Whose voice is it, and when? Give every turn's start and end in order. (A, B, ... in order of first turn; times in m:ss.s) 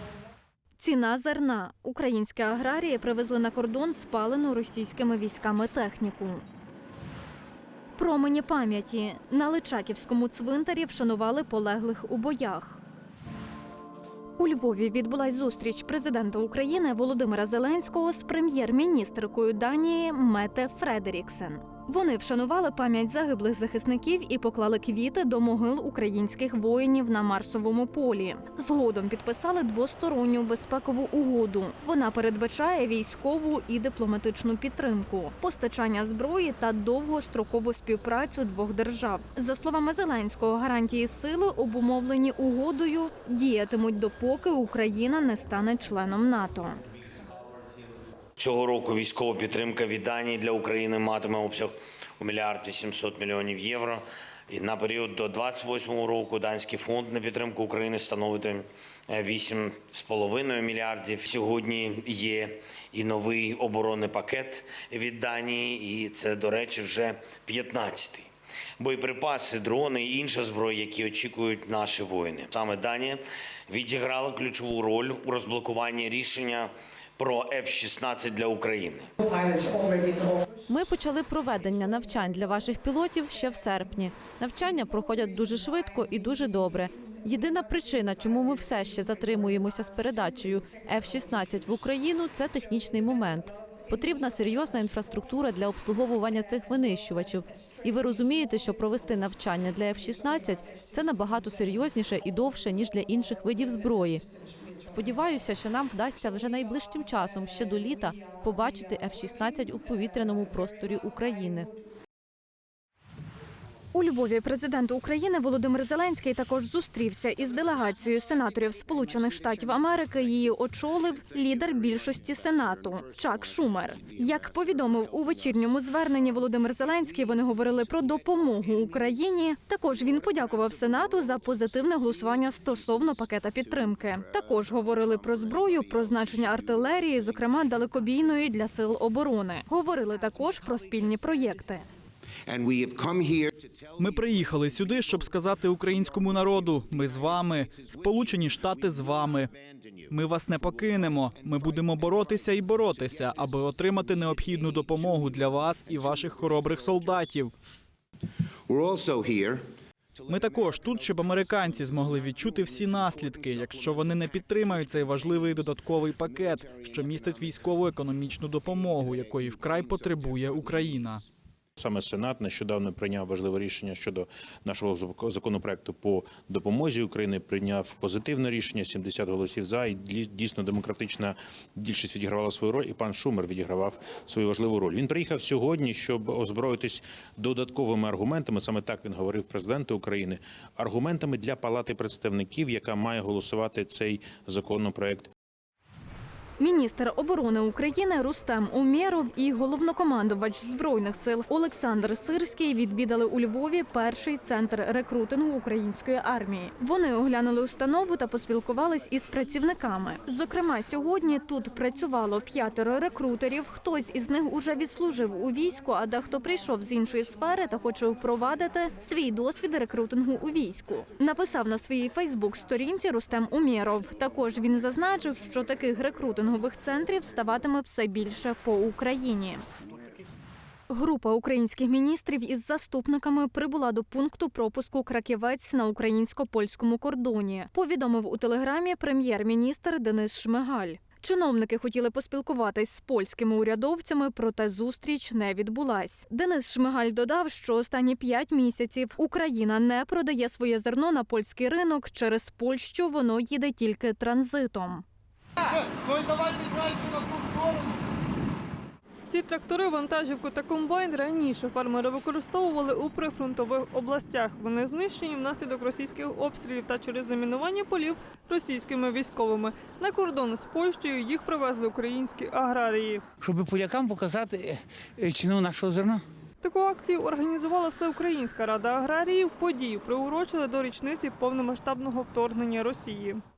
0:00.8-0:06.4 A
0:08.0-0:12.8 A
0:14.4-0:46.8 A
0:48.4-1:19.1 B
1:20.7-1:44.2 C
1:44.8-1:51.7 C
1:53.9-2:21.8 A
2:22.5-2:23.5 D
2:24.0-2:29.5 E
2:30.1-2:37.5 E
2:38.7-2:39.6 D
2:40.3-2:51.2 E
2:51.8-3:01.3 D
3:01.8-3:15.3 D
3:16.6-3:49.6 A
3:50.9-4:15.0 A
4:19.3-4:33.2 F
4:33.4-4:36.2 G
4:36.6-4:43.4 F